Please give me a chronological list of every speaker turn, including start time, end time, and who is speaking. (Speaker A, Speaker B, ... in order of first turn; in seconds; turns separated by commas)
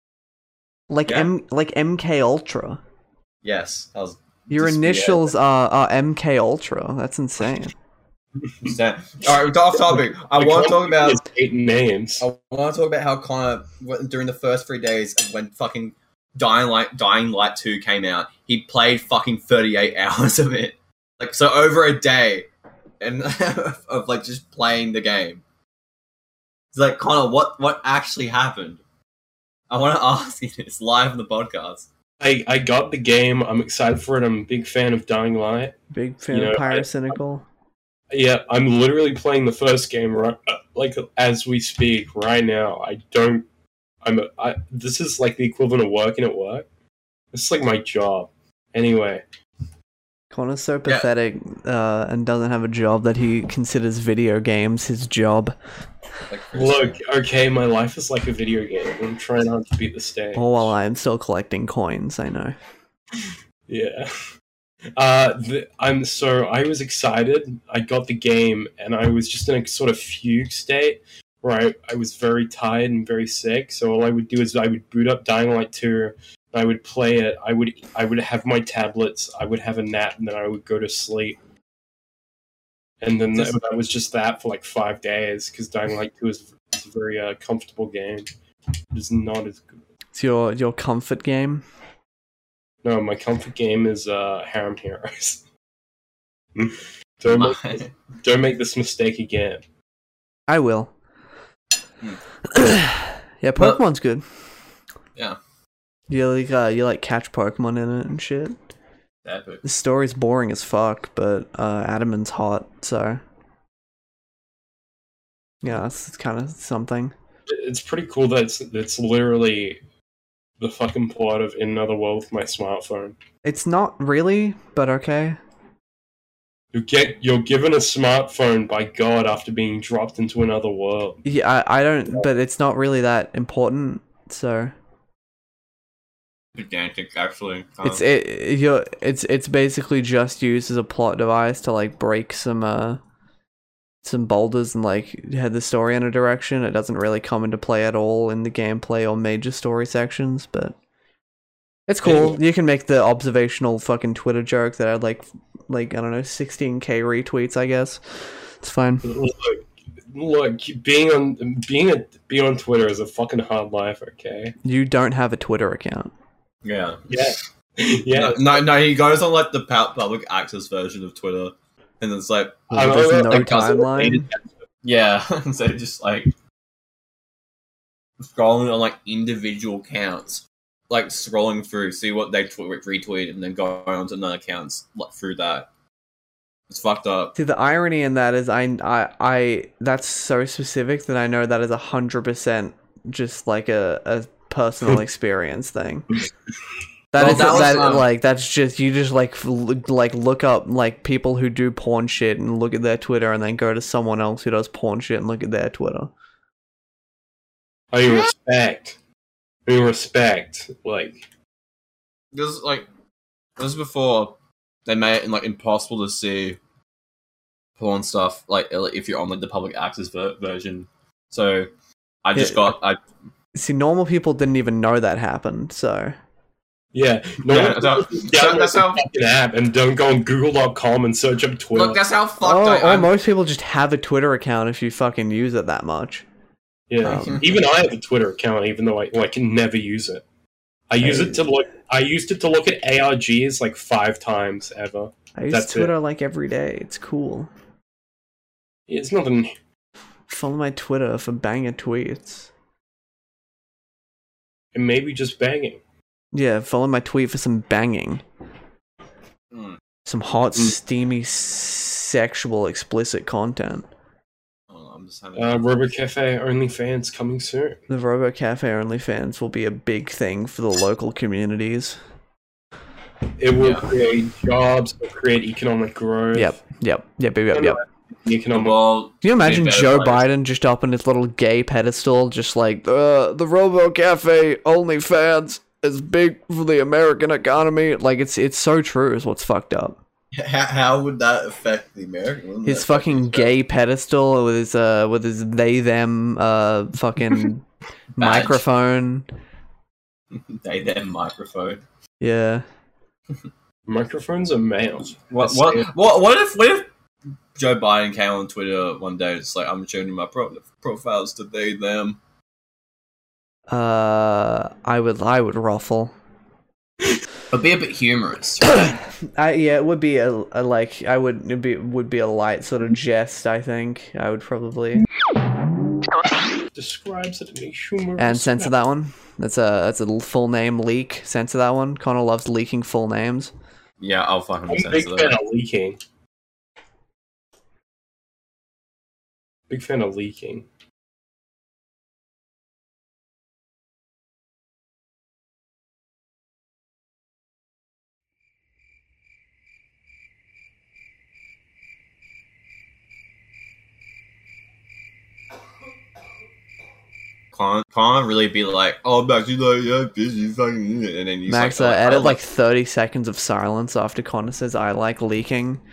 Speaker A: 0.9-2.8, Speaker B: 3.4-5.3, Speaker A: 4.5-7.7, Speaker B: 8.6-11.2, Speaker C: 9.9-12.2, Speaker B: 12.2-22.5, Speaker B: 23.0-25.4, Speaker B: 26.7-28.8, Speaker B: 29.7-31.9, Speaker C: 32.2-35.8, Speaker A: 35.9-37.5, Speaker C: 36.3-37.1, Speaker C: 38.1-43.5, Speaker C: 44.0-46.7, Speaker C: 47.3-49.2, Speaker A: 50.3-55.5, Speaker B: 56.3-57.0, Speaker C: 56.5-60.7, Speaker A: 60.4-62.6, Speaker C: 63.7-64.1, Speaker C: 65.0-81.4, Speaker C: 83.0-88.3, Speaker C: 88.9-89.7, Speaker A: 90.1-91.6, Speaker C: 92.8-95.4, Speaker C: 96.5-99.6, Speaker B: 97.3-97.9, Speaker A: 100.5-100.9, Speaker A: 102.5-104.2, Speaker A: 106.1-108.5, Speaker B: 109.2-109.6, Speaker A: 109.6-113.2, Speaker A: 115.6-117.1, Speaker C: 117.5-119.8, Speaker C: 120.6-123.2, Speaker A: 123.4-125.4, Speaker C: 126.7-131.2, Speaker A: 131.2-134.7, Speaker B: 136.6-138.1, Speaker A: 137.8-143.0, Speaker A: 144.0-150.8, Speaker A: 151.9-159.1, Speaker C: 152.0-152.4, Speaker C: 159.0-164.6, Speaker A: 164.6-166.1, Speaker B: 166.6-167.3, Speaker C: 167.1-168.6, Speaker B: 168.1-172.8, Speaker A: 172.7-174.2, Speaker C: 172.7-174.3, Speaker B: 173.3-174.2, Speaker B: 174.8-176.3, Speaker B: 178.2-185.7, Speaker B: 186.7-187.3, Speaker A: 187.4-196.1, Speaker A: 197.1-206.1, Speaker B: 197.2-198.1, Speaker C: 197.2-197.7, Speaker C: 207.9-209.0, Speaker C: 209.7-211.2, Speaker B: 212.3-212.9, Speaker B: 213.6-216.6, Speaker B: 217.8-221.7, Speaker B: 222.2-223.0, Speaker A: 222.3-222.8, Speaker A: 223.6-226.2, Speaker C: 226.9-232.0, Speaker B: 227.5-229.0, Speaker B: 231.7-233.1, Speaker A: 232.4-236.2, Speaker C: 236.9-240.2, Speaker A: 237.1-237.4, Speaker B: 237.1-237.4, Speaker C: 240.9-245.9, Speaker A: 241.0-241.4, Speaker A: 245.4-247.5, Speaker C: 248.9-249.5, Speaker A: 250.3-252.5, Speaker C: 254.7-255.8, Speaker A: 256.3-258.2, Speaker B: 259.5-259.8, Speaker A: 260.1-263.9, Speaker B: 264.7-265.6, Speaker C: 265.4-267.8, Speaker A: 267.9-272.0, Speaker C: 273.4-276.6, Speaker B: 273.6-273.9, Speaker A: 276.3-277.8, Speaker C: 277.5-278.8, Speaker B: 278.5-280.2, Speaker A: 279.2-290.0, Speaker B: 290.3-293.5, Speaker A: 292.6-297.6, Speaker B: 298.2-298.6, Speaker A: 298.2-299.3, Speaker B: 300.4-301.8, Speaker A: 302.2-302.6, Speaker C: 303.9-305.9, Speaker B: 305.3-306.9, Speaker B: 307.6-312.2, Speaker A: 313.7-316.1, Speaker B: 317.5-318.9, Speaker A: 318.6-325.1, Speaker C: 326.7-328.7, Speaker A: 328.2-333.5, Speaker B: 334.0-335.4, Speaker C: 334.7-336.0, Speaker C: 339.7-340.7, Speaker B: 357.5-362.4, Speaker A: 361.5-365.8